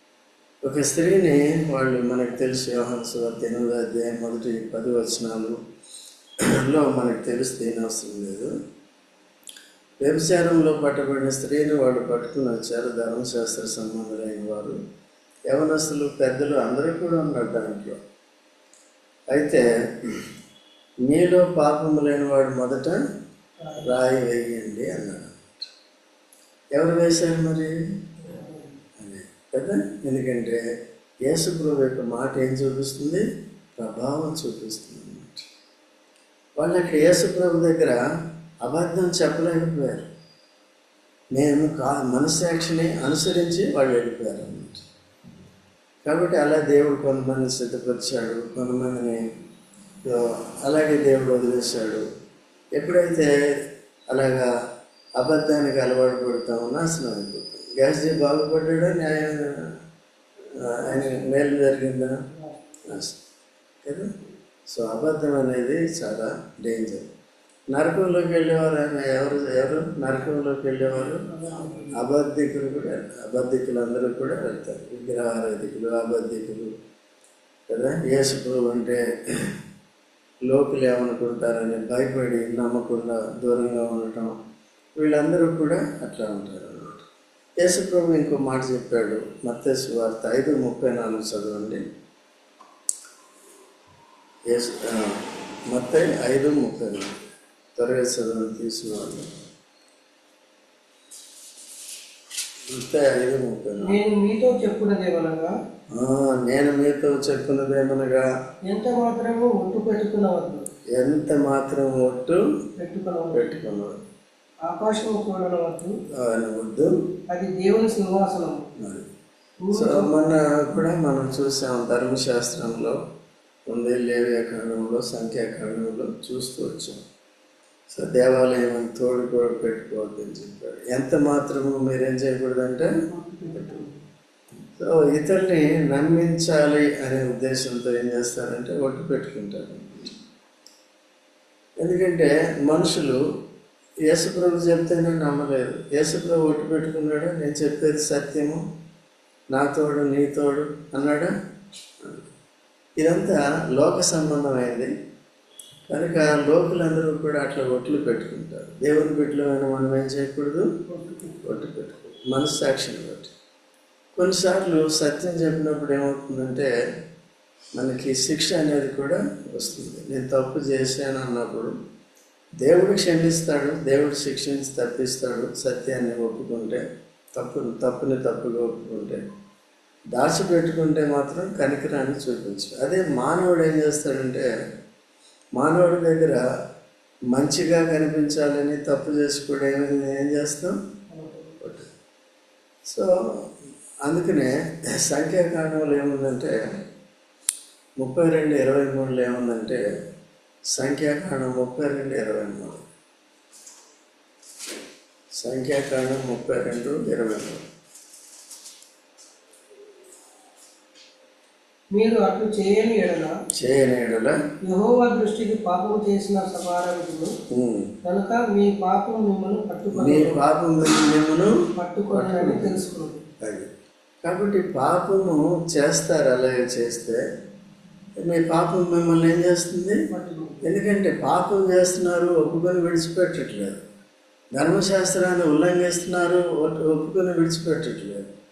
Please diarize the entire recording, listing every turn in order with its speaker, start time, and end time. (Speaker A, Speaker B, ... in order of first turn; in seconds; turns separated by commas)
Speaker A: 0.6-5.6, Speaker A: 6.6-8.5, Speaker A: 10.0-14.8, Speaker A: 15.5-18.0, Speaker A: 19.3-19.7, Speaker A: 21.1-23.0, Speaker B: 23.6-23.9, Speaker A: 23.8-25.7, Speaker A: 26.8-28.4, Speaker B: 28.3-28.7, Speaker A: 29.0-30.6, Speaker A: 31.3-33.2, Speaker A: 33.8-35.4, Speaker A: 36.6-38.0, Speaker A: 38.6-40.1, Speaker A: 41.3-44.8, Speaker A: 46.0-49.2, Speaker A: 50.0-52.0, Speaker A: 52.8-53.3, Speaker A: 54.1-54.5, Speaker A: 55.2-59.5, Speaker A: 60.6-62.1, Speaker B: 60.8-61.1, Speaker A: 62.9-63.2, Speaker A: 64.7-67.1, Speaker A: 67.7-71.3, Speaker B: 71.3-72.0, Speaker A: 71.9-76.7, Speaker A: 77.7-79.0, Speaker A: 80.5-84.3, Speaker A: 85.0-87.0, Speaker A: 87.6-91.8, Speaker A: 94.5-95.2, Speaker A: 95.7-97.2, Speaker A: 97.8-99.3, Speaker A: 102.7-104.0, Speaker B: 103.8-105.5, Speaker A: 106.0-108.2, Speaker B: 108.7-110.6, Speaker A: 111.0-112.4, Speaker B: 112.8-113.6, Speaker A: 113.3-114.0, Speaker B: 114.7-115.9, Speaker A: 116.2-116.9, Speaker B: 117.3-118.7, Speaker A: 118.8-119.1, Speaker B: 119.7-120.1, Speaker A: 119.7-123.0, Speaker A: 123.7-127.0, Speaker A: 127.9-132.9, Speaker B: 133.1-134.0, Speaker A: 134.8-140.1, Speaker A: 141.8-143.2, Speaker A: 144.1-148.6, Speaker A: 149.5-151.3, Speaker A: 152.0-152.3, Speaker A: 153.0-154.9, Speaker A: 155.9-160.7, Speaker B: 160.9-161.4, Speaker A: 161.4-163.3, Speaker A: 164.2-166.7, Speaker A: 167.8-171.7, Speaker A: 172.6-176.8, Speaker A: 177.4-179.2, Speaker A: 180.2-184.5, Speaker A: 185.6-186.4, Speaker A: 187.3-190.8, Speaker B: 191.1-191.5, Speaker A: 191.6-191.9, Speaker A: 194.1-194.5, Speaker A: 195.1-196.5, Speaker A: 198.0-199.8, Speaker A: 200.7-202.8, Speaker A: 205.4-207.6, Speaker B: 211.9-213.3, Speaker A: 213.6-214.4, Speaker B: 214.6-217.3, Speaker A: 217.5-217.9, Speaker B: 218.0-220.4, Speaker A: 219.9-221.5, Speaker B: 221.8-223.2, Speaker A: 222.1-222.9, Speaker A: 223.4-223.7, Speaker A: 224.2-227.2, Speaker A: 228.2-230.0, Speaker B: 230.1-230.7, Speaker A: 230.6-233.8, Speaker A: 234.6-238.3